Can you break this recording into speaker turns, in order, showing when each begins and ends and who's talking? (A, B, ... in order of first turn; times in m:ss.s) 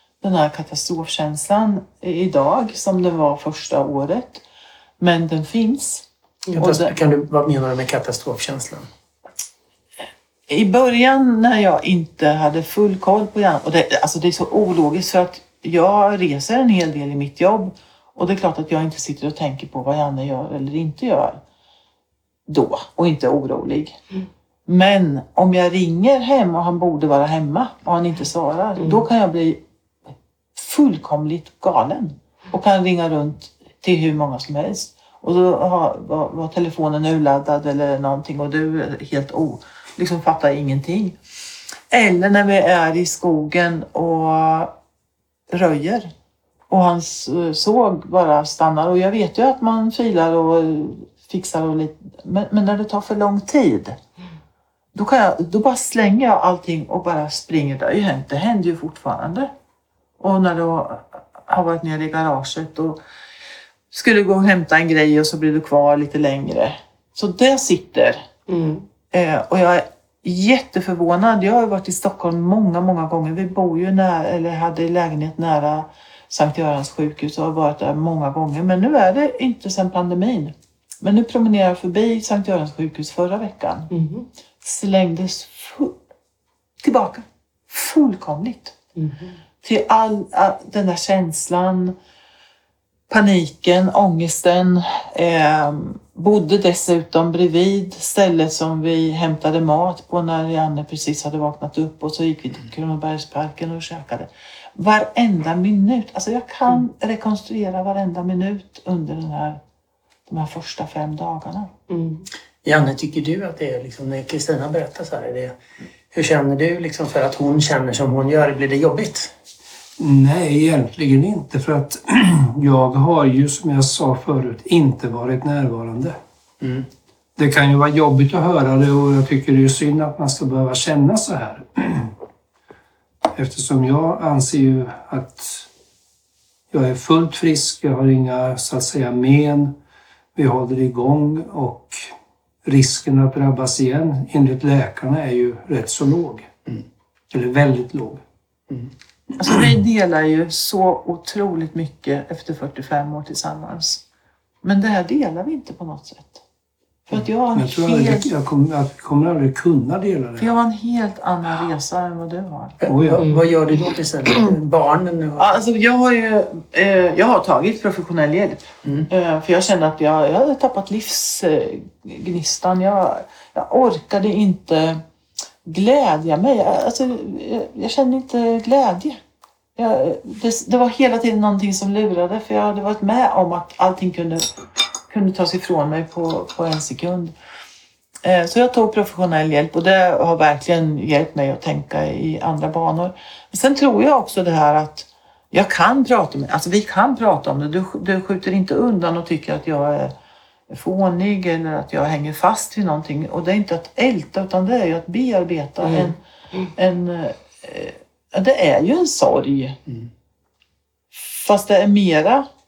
0:00.2-0:04.4 A
0:05.0-0:06.9 A
0:06.5-0:08.9 B
0:10.5-0:21.4 A
0:22.5-0:24.0 A
0:24.7-0:29.6 A
0:28.8-0:29.0 C
0:30.6-0:41.2 A
0:41.9-0:44.7 A
0:45.5-0:46.1 A
0:46.7-0:54.0 A
0:55.0-0:59.5 A
1:00.2-1:03.0 A
1:03.9-1:08.2 A
1:08.5-1:08.8 C
1:09.1-1:23.9 A
1:23.9-1:24.3 C
1:24.6-1:26.0 A
1:26.8-1:28.8 A
1:29.0-1:29.4 C
1:29.6-1:32.0 A
1:33.1-1:49.6 A
1:50.3-1:51.7 A
1:51.9-1:52.3 C
1:52.6-1:55.6 B
1:56.1-1:59.3 B
2:00.0-2:06.2 D
2:06.6-2:06.9 B
2:07.4-2:12.1 D
2:13.4-2:15.7 D
2:16.7-2:19.8 D
2:20.4-2:22.1 D
2:22.6-2:26.5 D
2:27.3-2:28.2 D
2:29.4-2:34.0 A
2:34.6-2:36.4 A
2:37.1-2:38.3 A
2:37.6-2:40.5 D
2:40.4-2:42.8 A
2:42.8-2:45.6 B
2:42.9-2:43.2 D
2:43.2-2:43.5 C
2:45.4-2:55.0 A
2:48.8-2:49.1 B
2:55.6-2:59.2 A
2:59.8-3:04.5 A
3:05.1-3:07.3 A
3:08.2-3:20.1 A
3:20.7-3:26.2 A
3:25.8-3:26.7 C
3:26.8-3:29.8 A
3:31.2-3:32.5 A